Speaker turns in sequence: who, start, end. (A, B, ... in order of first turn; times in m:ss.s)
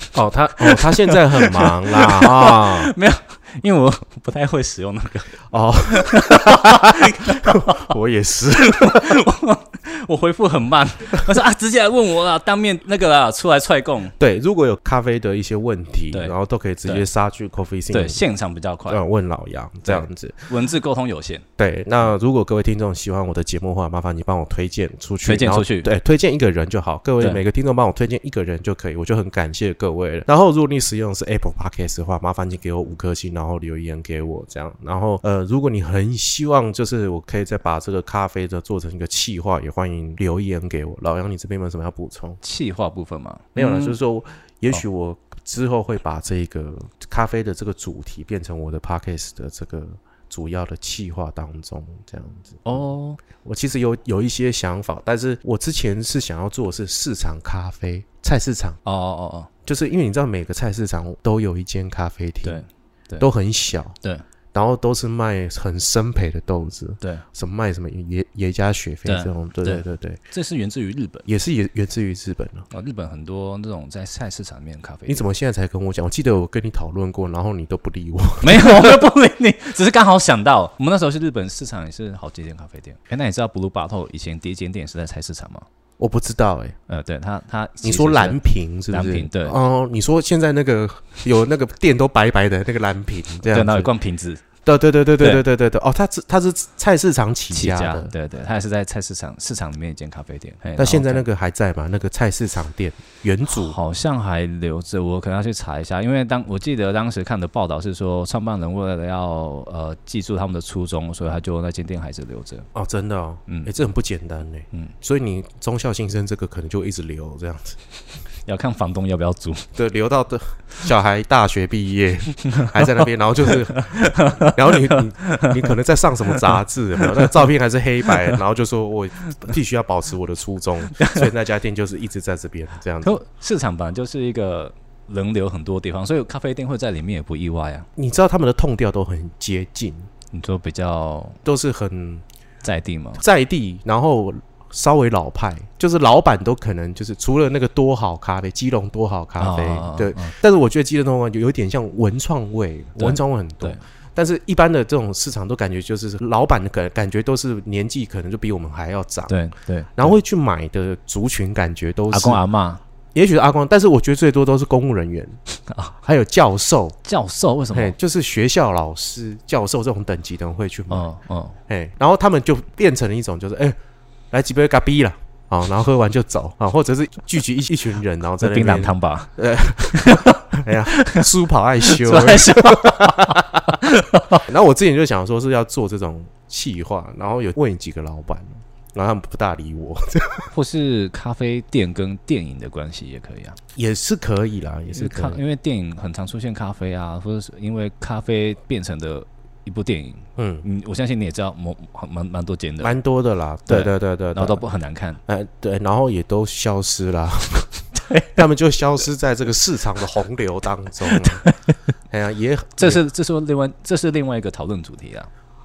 0:00.1-0:02.9 A
0:00.5-0:07.9 B
0:05.5-0:09.2 A
0:08.6-0:14.1 B
0:14.2-0:18.2 A
0:17.9-0:19.0 B
0:18.9-0:20.5 A
0:19.8-0:21.4 B
0:21.6-0:42.4 A
0:25.2-0:25.9 B
0:42.4-0:44.0 B
0:43.5-0:52.8 A
0:52.6-0:53.2 B
0:53.4-0:58.8 A
0:58.8-0:59.5 B
0:59.6-1:02.6 A
1:02.4-1:03.3 B
1:03.2-1:04.0 A
1:04.5-1:10.2 A
1:09.0-1:11.3 B
1:11.2-1:12.6 A
1:12.7-1:15.2 B
1:15.1-1:19.0 A
1:18.4-1:25.7 B
1:26.0-1:26.8 A
1:26.9-1:28.4 B
1:27.8-1:33.9 A
1:28.9-1:29.6 B
1:33.5-1:34.4 B
1:34.6-1:38.1 A
1:37.5-1:41.2 B
1:40.8-1:43.8 A
1:43.5-1:52.7 B
1:52.7-1:57.8 A
1:58.4-1:59.7 B
1:59.7-2:13.2 A
2:02.4-2:03.0 B
2:03.5-2:05.7 B
2:11.0-2:11.3 B
2:13.0-2:17.9 B
2:18.0-2:20.1 A
2:20.3-2:21.4 B
2:21.4-2:22.2 A
2:22.6-2:23.2 B
2:23.2-2:39.4 A
2:29.4-2:30.4 B
2:33.0-2:33.8 B
2:39.3-2:40.2 B
2:40.0-2:42.4 A
2:42.1-2:42.8 B
2:43.1-2:45.4 A
2:45.7-2:45.9 B
2:46.0-2:47.0 A
2:47.0-2:47.9 B
2:47.7-2:51.0 A
2:50.9-2:51.6 B
2:51.7-2:53.8 A
2:54.3-3:03.7 A
2:58.4-2:59.3 B
2:59.9-3:01.2 B
3:01.8-3:04.4 B
3:04.4-3:10.5 A
3:10.5-3:13.6 B
3:13.7-3:15.4 A
3:15.0-3:22.9 B
3:20.4-3:20.6 A
3:22.8-3:24.6 A
3:23.7-3:25.2 B
3:25.3-3:31.5 A
3:28.0-3:28.4 B
3:31.1-3:31.7 B
3:32.1-3:33.0 A
3:32.8-3:35.3 B